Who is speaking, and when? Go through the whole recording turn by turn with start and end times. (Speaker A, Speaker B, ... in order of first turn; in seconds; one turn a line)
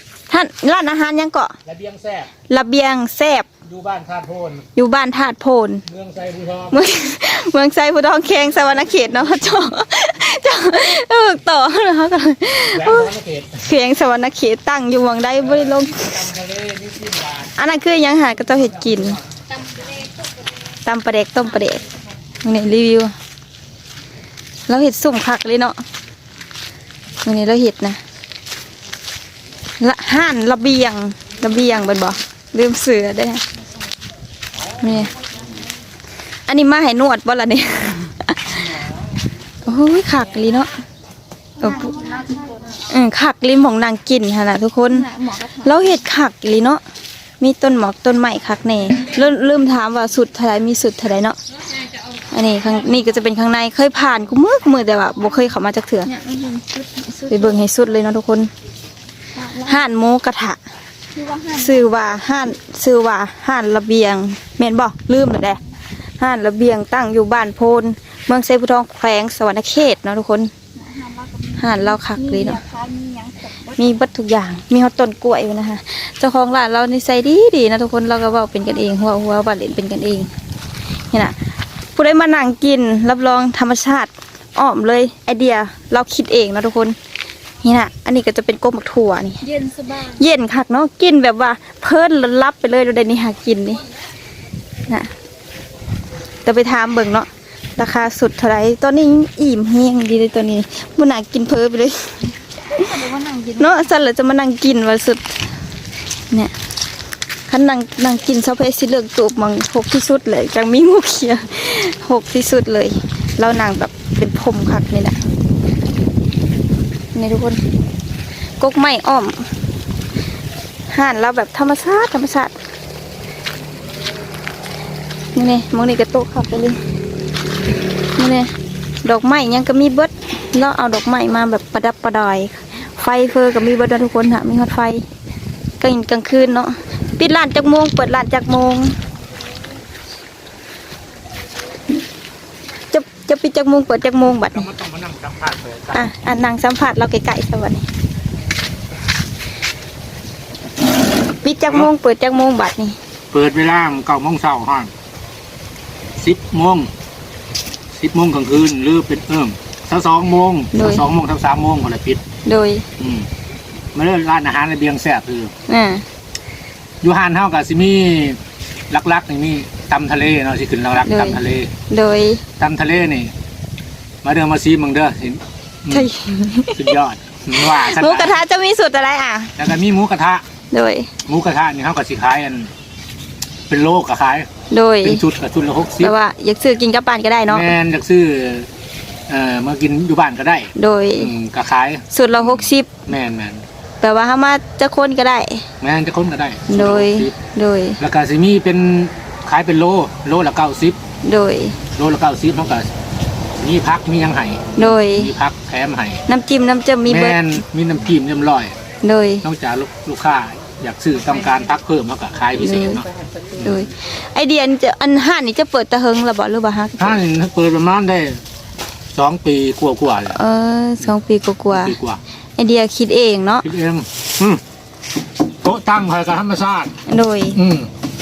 Speaker A: 0.3-1.5
Speaker B: 1.6-2.3
Speaker A: 2.5-3.5
Speaker B: 3.6-4.7
Speaker A: 4.8-5.8
Speaker B: 5.9-6.8
Speaker A: 6.7-16.3
Speaker B: 12.7-13.6
Speaker B: 15.4-17.5
Speaker A: 17.5-19.2
Speaker A: 20.9-21.8
Speaker A: 22.4-23.1
Speaker A: 24.7-25.8
Speaker A: 27.2-28.0
Speaker A: 29.8-33.4
Speaker A: 34.8-35.1
Speaker A: 36.5-38.8
Speaker A: 39.6-40.7
Speaker C: 41.6-42.8
Speaker A: 41.6-42.0
Speaker A: 42.8-46.8
Speaker C: 44.9-45.8
Speaker A: 47.4-51.4
Speaker A: 52.3-56.1
Speaker C: 56.1-57.6
Speaker A: 57.3-58.5
Speaker C: 59.4-59.8
Speaker A: 59.6-60.6
Speaker C: 61.1-61.9
Speaker A: 61.5-65.6
Speaker A: 66.2-70.5
Speaker C: 70.8-73.8
Speaker A: 71.6-72.6
Speaker A: 73.7-80.3
Speaker A: 81.1-81.4
Speaker A: 82.0-87.0
Speaker A: 87.6-89.4
Speaker C: 89.4-90.2
Speaker A: 90.0-93.8
Speaker A: 96.4-102.9
Speaker C: 102.7-103.9
Speaker A: 103.6-105.4
Speaker A: 107.5-115.2
Speaker A: 117.1-117.6
Speaker A: 118.6-119.5
Speaker A: 120.9-122.6
Speaker A: 125.3-126.8
Speaker A: 128.2-128.5
Speaker A: 129.0-135.0
Speaker A: 135.8-139.0
Speaker A: 142.9-144.7
Speaker B: 144.5-146.1
Speaker A: 145.9-147.8
Speaker A: 151.4-153.0
Speaker B: 153.3-154.9
Speaker B: 156.2-156.9
Speaker B: 157.9-162.2
Speaker A: 160.7-161.1
Speaker A: 162.4-162.8
Speaker B: 163.0-163.3
Speaker B: 163.9-165.5
Speaker A: 165.7-166.0
Speaker B: 167.0-168.4
Speaker B: 168.9-171.7
Speaker A: 171.0-172.4
Speaker B: 172.6-173.3
Speaker B: 174.2-176.1
Speaker A: 175.9-176.9
Speaker B: 176.7-178.4
Speaker A: 177.5-179.6
Speaker B: 179.6-180.4
Speaker A: 180.7-181.1
Speaker B: 181.3-182.7
Speaker B: 183.7-184.5
Speaker A: 184.7-185.2
Speaker B: 185.0-186.1
Speaker A: 186.0-187.7
Speaker B: 187.5-188.7
Speaker B: 189.3-193.7
Speaker A: 190.8-191.3
Speaker A: 192.1-193.0
Speaker A: 194.0-195.7
Speaker B: 195.8-197.3
Speaker A: 196.7-198.0
Speaker B: 198.0-201.0
Speaker A: 201.2-201.8
Speaker B: 201.9-202.9
Speaker B: 203.6-206.2
Speaker A: 204.8-205.3
Speaker A: 206.3-207.4
Speaker B: 207.1-208.8
Speaker A: 209.0-209.4
Speaker B: 209.4-213.9
Speaker A: 212.6-213.1
Speaker A: 213.6-217.2
Speaker B: 217.0-218.4
Speaker B: 219.1-220.4
Speaker A: 220.3-222.0
Speaker B: 221.7-222.2
Speaker A: 222.6-223.7
Speaker B: 223.6-224.6
Speaker B: 225.6-226.9
Speaker A: 227.1-227.6
Speaker B: 227.6-227.9